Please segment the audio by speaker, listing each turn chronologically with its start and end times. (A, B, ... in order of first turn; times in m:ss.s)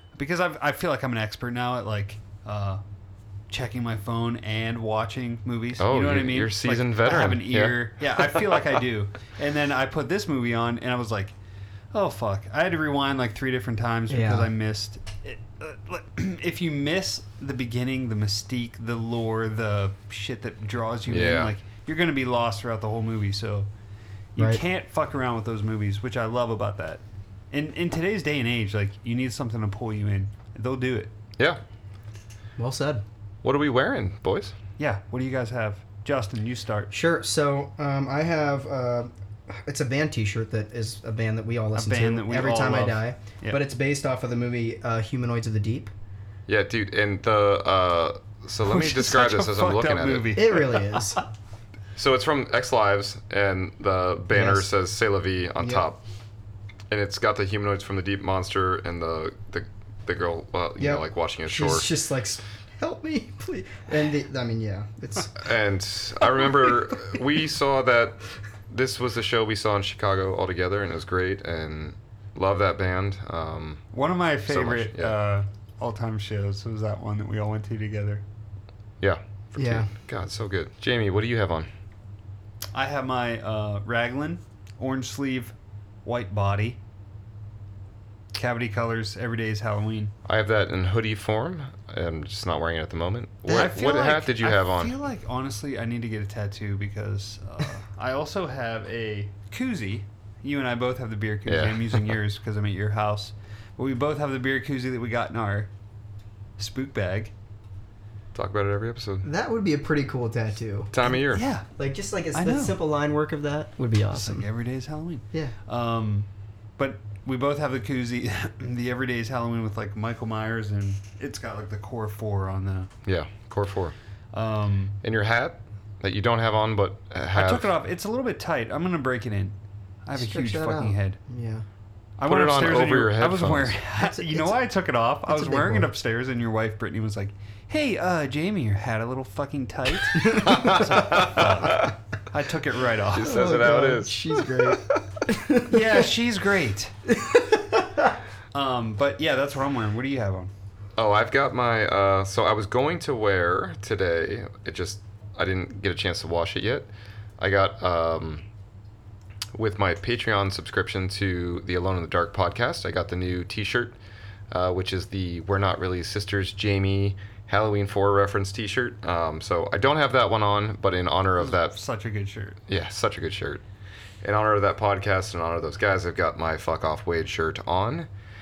0:00.1-0:02.8 A
0:03.5-0:11.3 A
0:05.8-0:08.6 B
0:11.9-0:23.7 A
0:14.1-0:14.5 C
0:21.1-0:21.5 B
0:24.3-0:31.1 A
0:32.6-0:33.0 C
0:33.4-0:34.5 B
0:34.8-0:36.9 A
0:36.9-0:45.9 C
0:41.7-0:43.6 A
0:46.5-0:50.4 B
0:48.6-0:51.2 A
0:50.3-0:51.2 C
0:52.0-0:56.0 B
0:54.3-0:54.7 C
0:56.9-1:01.9 B
1:00.8-1:05.4 C
1:05.3-1:13.8 B
1:13.9-1:18.2 A
1:14.5-1:15.2 B
1:19.0-1:21.7 B
1:19.6-1:19.9 C
1:22.7-1:25.5 A
1:26.0-1:26.8 A
1:28.3-1:30.1 A
1:30.2-1:34.9 B
1:33.5-1:45.7 A
1:41.4-1:42.2 B
1:46.6-1:47.3 A
1:48.3-1:49.3 B
1:49.2-1:51.1 C
1:50.9-1:51.5 B
1:51.3-1:51.7 A
1:51.8-1:54.4 C
1:52.3-1:52.8 A
1:54.1-1:56.3 A
1:56.8-2:02.9 A
2:03.0-2:03.9 B
2:04.3-2:04.9 A
2:05.0-2:07.7 B
2:07.3-2:11.2 A
2:10.1-2:11.6 C
2:12.2-2:23.4 A
2:12.2-2:13.8 B
2:14.0-2:14.5 C
2:15.3-2:15.9 C
2:20.3-2:21.9 B
2:23.1-2:25.0 B
2:23.2-2:25.9 C
2:25.6-2:26.9 A
2:27.2-2:28.1 C
2:28.5-2:30.5 A
2:31.0-2:38.4 B
2:39.5-2:44.0 B
2:44.5-2:51.8 B
2:51.4-2:52.6 A
2:52.7-2:53.6 B
2:54.2-2:58.1 B